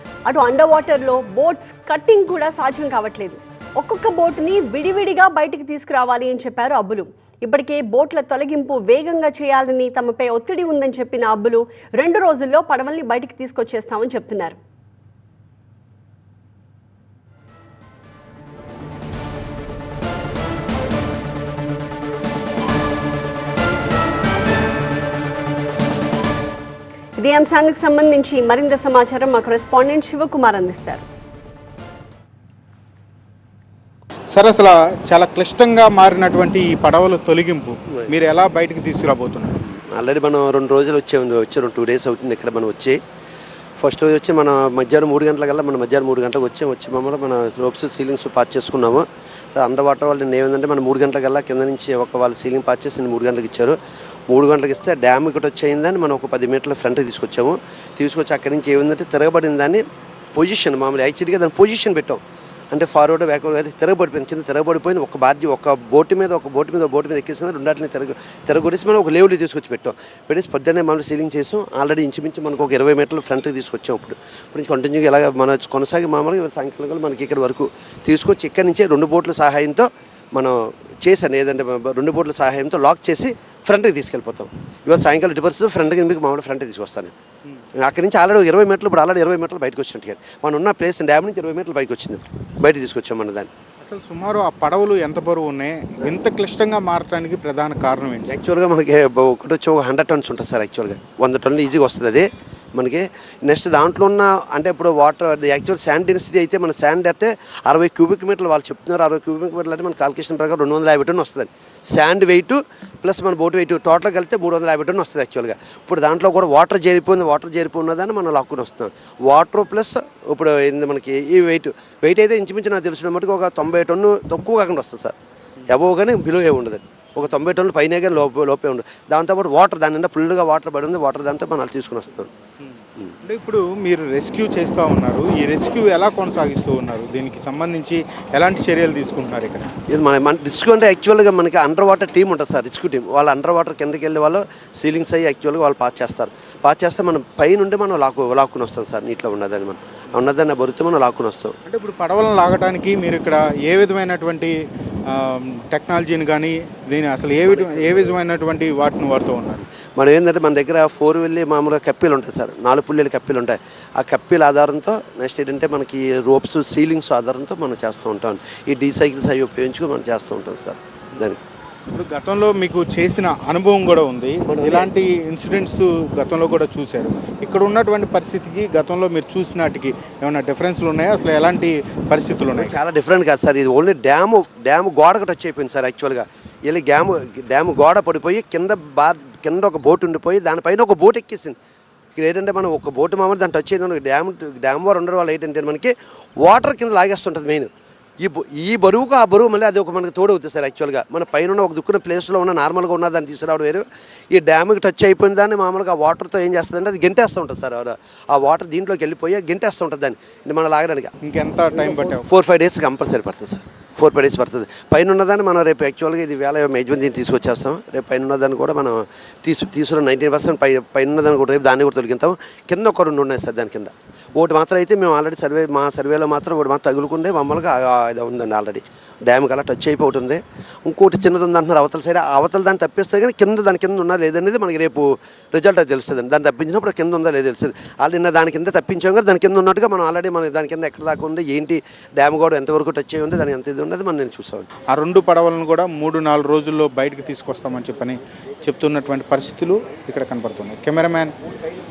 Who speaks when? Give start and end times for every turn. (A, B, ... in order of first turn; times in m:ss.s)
0:00.3-0:14.6 A
0:27.2-0:31.0 A
0:34.3-0:39.6 B
0:39.6-0:43.0 C
0:43.8-0:53.8 C
0:54.3-0:59.8 C
1:00.3-1:02.2 C
1:02.7-1:27.1 C
1:27.8-1:33.5 C
1:33.8-1:38.3 B
1:38.3-2:05.2 C
2:05.7-2:12.3 C
2:13.2-2:19.7 B
2:19.9-2:31.6 C
2:31.6-2:34.5 B
2:35.1-2:39.7 B
2:37.5-2:38.2 C
2:40.0-2:51.4 C
2:51.9-3:02.8 B
2:54.5-2:54.9 C
3:02.5-3:11.6 C
3:12.1-3:17.7 C
3:18.2-3:31.1 C
3:31.2-3:32.2 B
3:31.8-4:04.7 C
4:04.9-4:11.3 B